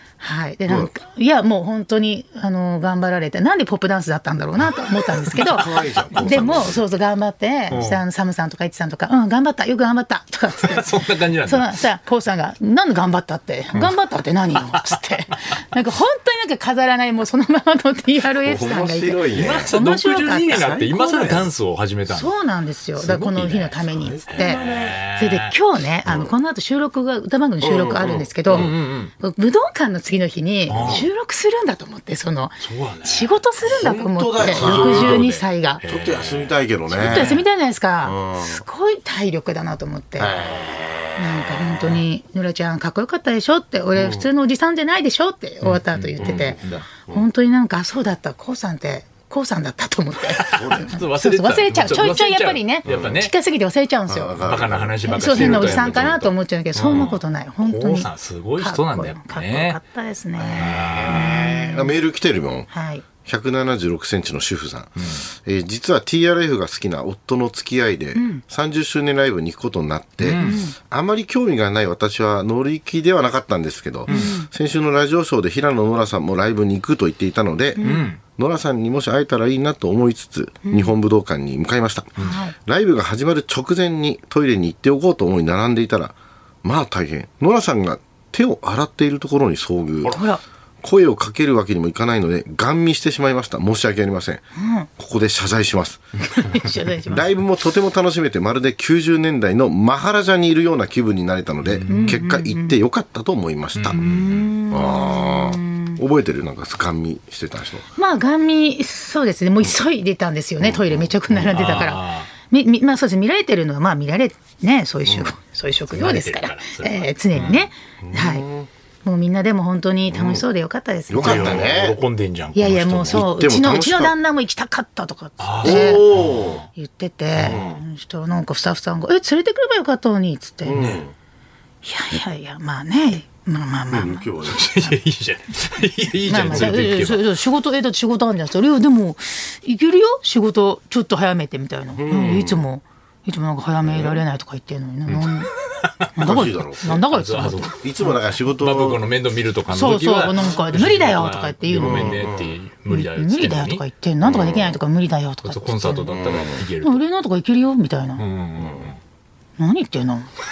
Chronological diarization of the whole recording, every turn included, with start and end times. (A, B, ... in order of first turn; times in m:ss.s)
0:00.2-0:20.7 A
0:05.4-0:06.8 B
0:07.7-0:08.0 C
0:10.5-0:11.7 C
0:18.4-0:19.7 B
0:19.3-0:22.3 C
0:20.5-0:21.5 B
0:22.1-0:35.8 A
0:23.0-0:25.5 C
0:23.9-0:25.0 B
0:26.0-0:26.3 B
0:27.6-0:28.7 B
0:28.5-0:29.1 C
0:30.7-0:31.1 C
0:30.7-0:31.1 B
0:32.6-0:33.4 C
0:33.6-0:35.2 B
0:34.4-0:37.4 C
0:35.8-0:37.4 B
0:36.9-0:40.4 A
0:38.0-0:38.6 B
0:40.2-0:40.9 B
0:40.6-0:41.9 C
0:41.2-0:54.4 A
0:43.9-0:44.3 B
0:45.6-0:46.8 C
0:46.2-0:47.3 B
0:50.3-0:53.3 C
0:50.4-0:50.9 B
0:52.8-0:53.2 B
0:54.1-0:56.3 B
0:54.4-0:56.2 C
0:55.1-1:02.0 A
0:56.7-0:59.8 C
1:00.4-1:02.7 B
1:00.5-1:01.6 C
1:02.7-1:03.0 A
1:03.2-1:30.2 B
1:05.0-1:05.2 C
1:08.1-1:08.4 A
1:10.2-1:10.6 C
1:10.3-1:10.7 A
1:14.1-1:14.5 A
1:14.1-1:14.3 C
1:17.8-1:18.1 A
1:17.8-1:18.2 C
1:20.6-1:20.9 A
1:22.2-1:22.6 A
1:30.0-1:30.4 A
1:30.8-1:34.4 B
1:34.6-1:34.9 A
1:35.0-1:36.0 B
1:36.2-1:37.3 A
1:37.1-1:47.8 B
1:41.6-1:42.2 C
1:41.9-1:42.8 A
1:43.8-1:44.5 C
1:43.9-1:46.0 A
1:48.0-1:58.4 A
1:50.6-1:51.7 B
1:51.5-1:52.3 C
1:55.0-1:55.3 B
1:55.9-1:57.6 C
1:58.0-1:58.7 B
1:59.0-2:01.7 A
2:00.1-2:00.4 B
2:01.1-2:02.0 B
2:01.2-2:03.2 C
2:02.5-2:06.1 A
2:03.1-2:04.1 B
2:05.4-2:06.6 C
2:05.6-2:06.6 B
2:06.7-2:10.8 A
2:07.4-2:07.8 B
2:10.6-2:11.1 B
2:10.7-2:11.0 C
2:11.8-2:14.3 A
2:13.9-2:14.9 B
2:14.5-2:17.3 C
2:16.3-2:25.5 A
2:21.9-2:22.6 B
2:23.8-2:24.2 B
2:25.1-2:26.1 C
2:26.1-2:27.8 A
2:26.2-2:27.0 B
2:26.8-2:27.8 C
2:27.7-2:29.0 B
2:28.4-2:33.8 C
2:29.7-2:32.2 A
2:31.8-2:32.5 B
2:32.9-2:36.1 A
2:34.2-2:34.8 B
2:35.4-2:37.0 C
2:36.1-2:36.6 B
2:36.8-2:38.2 A
2:38.2-2:39.0 C
2:38.6-2:38.9 B
2:39.6-2:40.3 A